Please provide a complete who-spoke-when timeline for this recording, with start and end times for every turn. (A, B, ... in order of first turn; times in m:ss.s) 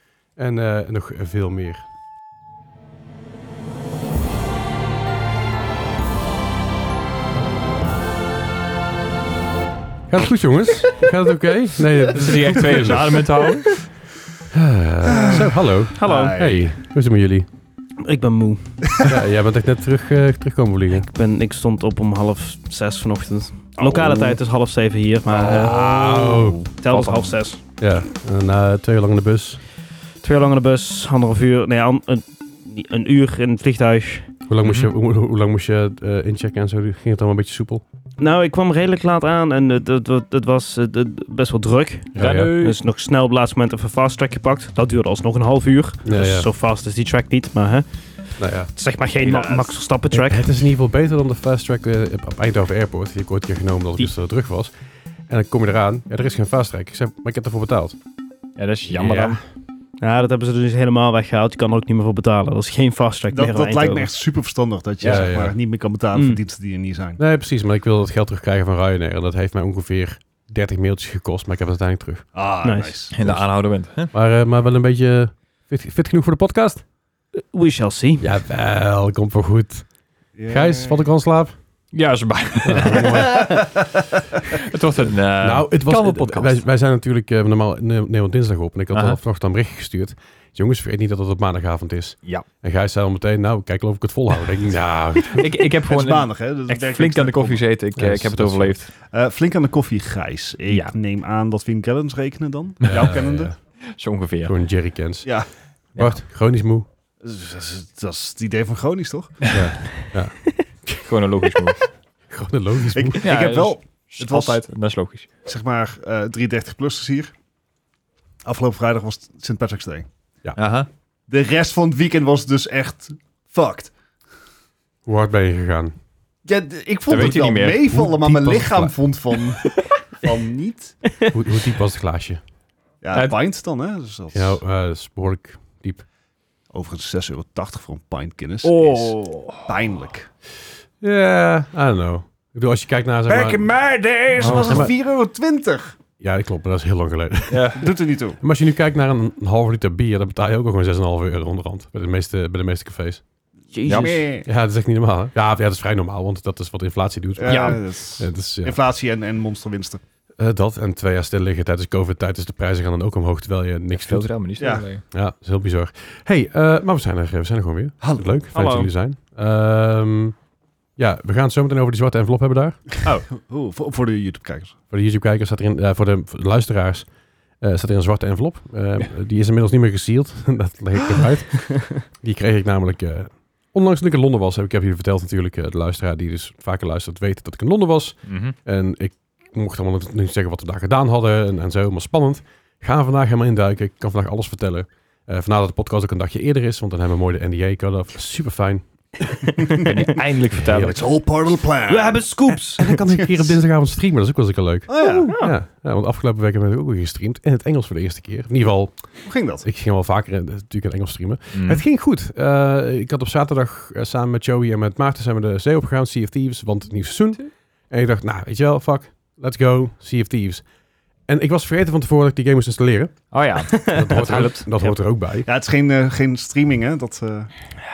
0:00.4-0:01.8 A
0:10.1-0:13.3 A
0:12.1-0:13.8 B
0:12.8-0:13.2 C
0:14.5-0:17.5 A
0:15.0-0:16.7 C
0:16.0-0:16.4 D
0:18.0-0:19.0 D
0:19.0-0:21.1 A
0:20.9-0:27.6 D
0:23.8-0:24.3 C
0:25.4-0:26.7 A
0:26.9-0:27.3 B
0:27.8-0:29.6 A
0:30.2-0:34.3 D
0:34.5-0:37.8 A
0:34.6-0:34.9 B
0:38.2-0:47.8 D
0:42.2-0:42.5 A
0:42.2-0:42.8 B
0:46.0-0:46.5 A
0:48.4-0:48.7 A
0:48.8-0:50.4 D
0:49.2-0:49.7 C
0:50.1-0:54.7 A
0:55.3-0:58.0 A
0:58.6-0:59.4 B
0:58.8-0:59.4 A
1:00.0-1:04.1 D
1:03.3-1:07.2 C
1:05.0-1:05.3 B
1:05.0-1:05.5 A
1:06.1-1:06.4 D
1:07.2-1:12.3 A
1:12.3-1:13.1 C
1:12.6-1:13.0 D
1:13.1-1:14.1 B
1:13.2-1:13.6 A
1:14.1-1:16.8 A
1:17.5-1:18.2 D
1:18.2-1:19.9 A
1:20.4-1:21.1 C
1:20.5-1:21.6 A
1:21.9-1:23.6 B
1:22.6-1:23.7 A
1:24.5-1:26.6 B
1:25.4-1:35.5 A
1:28.9-1:29.2 B
1:35.2-1:38.9 B
1:35.9-1:37.6 C
1:38.0-1:38.8 A
1:39.1-1:43.5 C
1:40.7-1:40.9 B
1:42.8-1:44.6 B
1:42.8-1:43.6 A
1:44.4-1:45.4 A
1:45.9-1:46.9 A
1:47.2-1:49.5 C
1:49.5-1:51.0 A
1:51.0-1:51.9 B
1:52.3-1:53.2 A
1:52.9-1:54.6 C
1:53.2-1:55.3 B
1:55.4-1:57.3 C
1:58.4-2:00.1 C
2:00.6-2:00.9 B
2:01.3-2:03.9 C
2:05.1-2:06.0 A
2:06.4-2:11.0 C
2:07.1-2:07.9 B
2:07.8-2:09.0 A
2:11.3-2:12.4 A
2:13.0-2:14.6 C
2:14.3-2:16.0 A
2:16.7-2:20.3 C
2:18.6-2:19.7 B
2:21.0-2:23.7 A
2:23.3-2:25.9 C
2:24.4-2:25.0 A
2:24.4-2:24.8 B
2:26.2-2:33.2 A
2:27.5-2:27.9 B
2:27.8-2:28.4 C
2:33.7-2:34.3 D
2:33.9-2:34.2 B
2:33.9-2:34.5 C
2:34.4-2:38.8 A
2:37.4-2:40.0 C
2:37.5-2:37.8 B
2:40.4-2:44.3 A
2:43.9-2:45.0 B
2:44.6-2:44.9 C
2:45.1-2:50.4 A
2:48.0-2:48.3 C
2:48.5-2:48.9 D
2:51.0-2:53.0 A
2:53.3-2:54.8 C
2:54.9-3:21.0 A
3:08.3-3:08.6 B
3:19.6-3:19.9 C
3:19.8-3:21.0 B
3:20.8-3:23.6 C
3:21.9-3:23.0 D
3:22.5-3:40.7 A
3:24.9-3:25.4 C
3:25.0-3:25.5 D
3:29.2-3:29.7 C
3:31.5-3:31.8 B
3:41.3-3:45.5 A
3:43.3-3:44.7 B
3:43.7-3:44.1 D
3:44.8-3:47.5 C